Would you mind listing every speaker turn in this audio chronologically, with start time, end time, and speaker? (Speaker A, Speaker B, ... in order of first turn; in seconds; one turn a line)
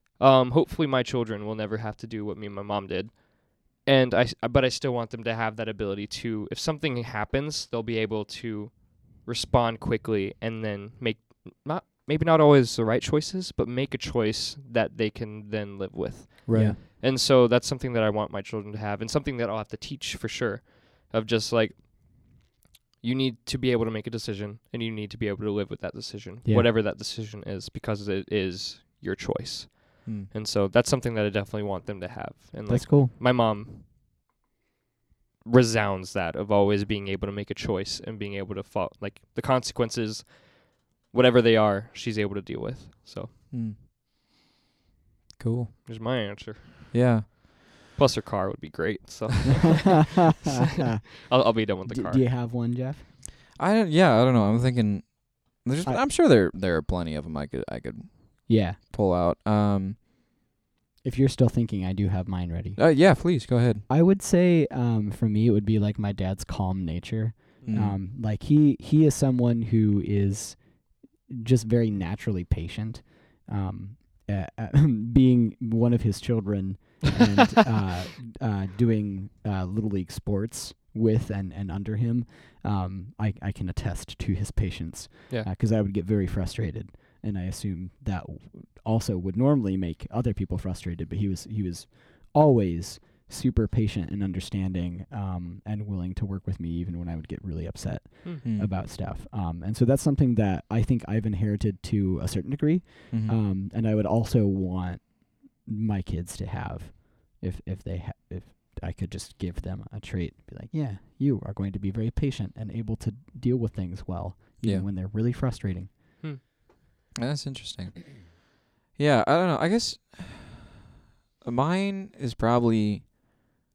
Speaker A: 0.2-22.4
Speaker B: 16.5-16.8
Speaker C: 16.5-16.8
Speaker A: 23.0-33.9
Speaker B: 30.1-30.3
Speaker C: 32.7-33.1
Speaker A: 35.5-43.3
Speaker B: 43.5-43.8
Speaker B: 45.4-45.7
Speaker A: 45.9-47.4
Speaker B: 46.9-47.3
Speaker A: 48.0-50.1
Speaker C: 50.2-51.3
Speaker A: 51.2-52.2
Speaker C: 51.9-53.0
Speaker B: 53.6-60.0
Speaker C: 58.5-58.8
Speaker C: 61.0-70.7
Speaker B: 62.8-63.8
Speaker B: 67.6-68.0
Speaker C: 71.3-115.9
Speaker B: 98.4-98.7
Speaker B: 103.1-103.4
Speaker B: 114.6-114.9
Speaker B: 117.2-118.3
Speaker B: 119.0-120.7
Speaker B: 121.4-123.4